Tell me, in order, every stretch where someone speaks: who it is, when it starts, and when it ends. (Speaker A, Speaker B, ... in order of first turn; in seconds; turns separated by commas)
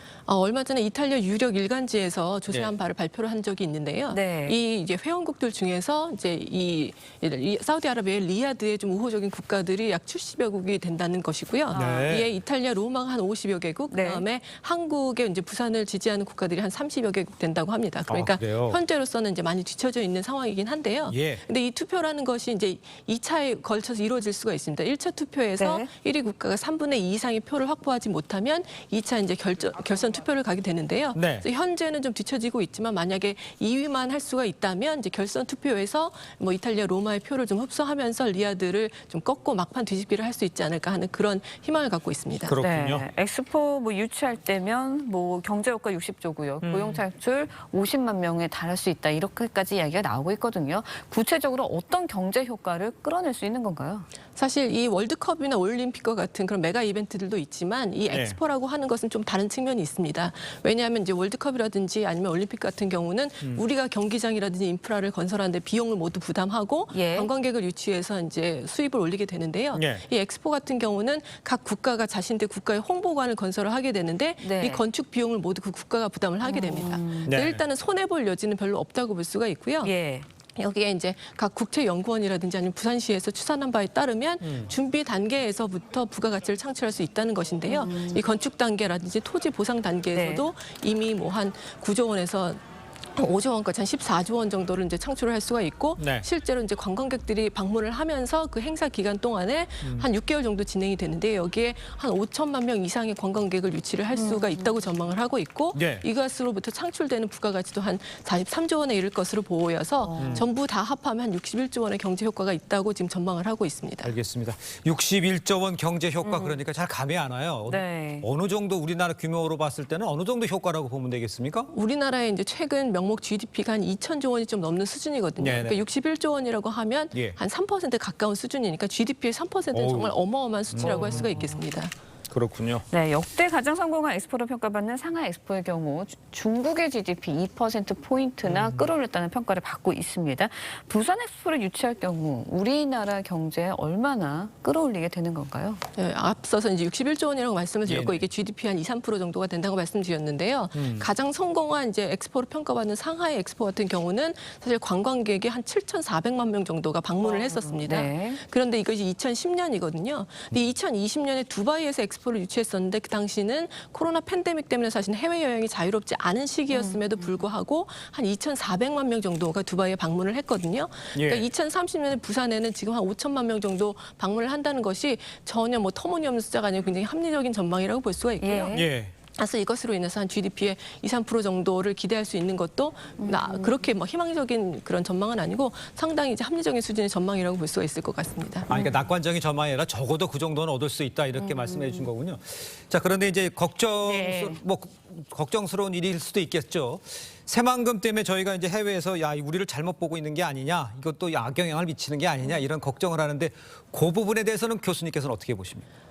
Speaker A: 0.2-42.6, Speaker B: 4.1-4.6, Speaker B: 11.7-12.1, Speaker C: 11.7-12.3, Speaker B: 13.9-14.2, Speaker C: 18.1-18.8, Speaker C: 21.1-21.4, Speaker B: 25.6-25.9, Speaker C: 31.1-31.4, Speaker C: 42.4-43.0, Speaker B: 42.6-54.1, Speaker C: 46.6-47.0, Speaker A: 54.3-79.9, Speaker C: 58.1-58.4, Speaker B: 66.9-67.3, Speaker C: 69.7-70.0, Speaker B: 74.4-74.8, Speaker B: 76.4-77.3, Speaker C: 77.2-77.6, Speaker B: 79.8-80.2, Speaker A: 80.5-92.6, Speaker C: 84.4-84.7, Speaker B: 87.7-88.2, Speaker B: 90.1-90.5, Speaker A: 93.1-114.1, Speaker C: 96.0-96.2, Speaker B: 104.1-104.7, Speaker C: 105.7-106.0, Speaker B: 110.0-110.5, Speaker C: 110.2-110.5, Speaker C: 114.0-121.7, Speaker B: 116.2-116.6, Speaker B: 117.7-118.2, Speaker A: 121.7-131.9, Speaker C: 125.4-125.8, Speaker C: 129.7-130.2, Speaker C: 130.7-131.3, Speaker B: 130.8-131.3, Speaker C: 132.3-132.8, Speaker B: 132.9-145.8, Speaker C: 138.4-138.9, Speaker A: 145.9-178.8, Speaker C: 147.8-148.2, Speaker C: 150.7-151.1, Speaker B: 157.2-158.4, Speaker B: 166.7-167.4, Speaker C: 171.1-171.5, Speaker B: 178.4-178.9, Speaker C: 178.7-179.1, Speaker A: 179.3-188.7, Speaker B: 183.2-183.7, Speaker C: 188.7-205.8, Speaker B: 188.7-189.1, Speaker B: 191.3-192.1, Speaker B: 194.0-194.6